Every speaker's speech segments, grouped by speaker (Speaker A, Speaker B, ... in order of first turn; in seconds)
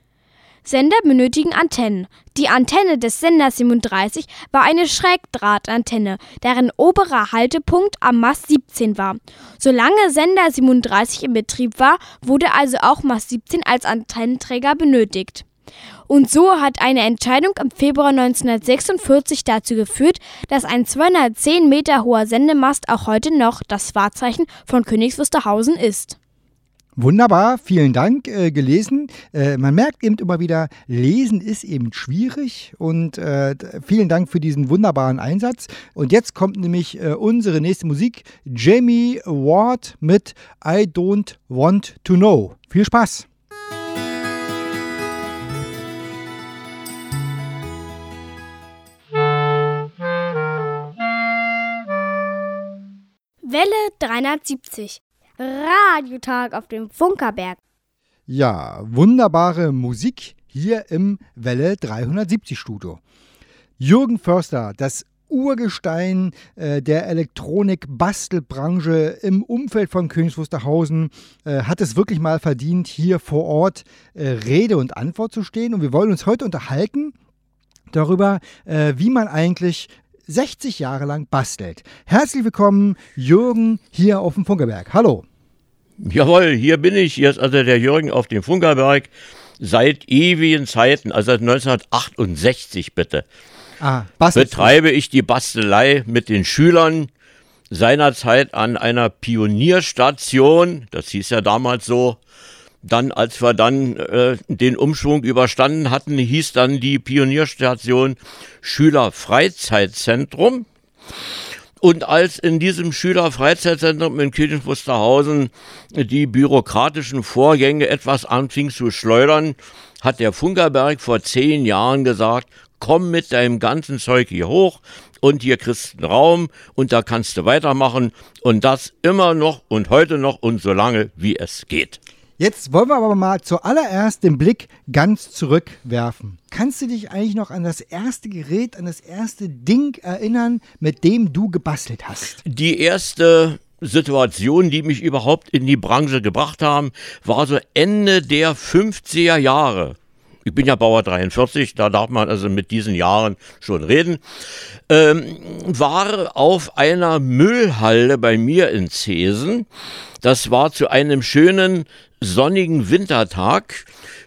Speaker A: 0.7-15.4, 16.1-26.2, 53.4-57.6
Speaker B: 27.0-43.3, 58.3-63.0, 63.8-77.2, 77.9-85.2, 93.8-94.7, 132.4-142.4
Speaker C: 86.0-93.2, 94.3-97.1, 97.7-102.2, 102.8-110.7, 111.8-132.0, 142.4-154.2, 154.9-159.7, 160.2-163.9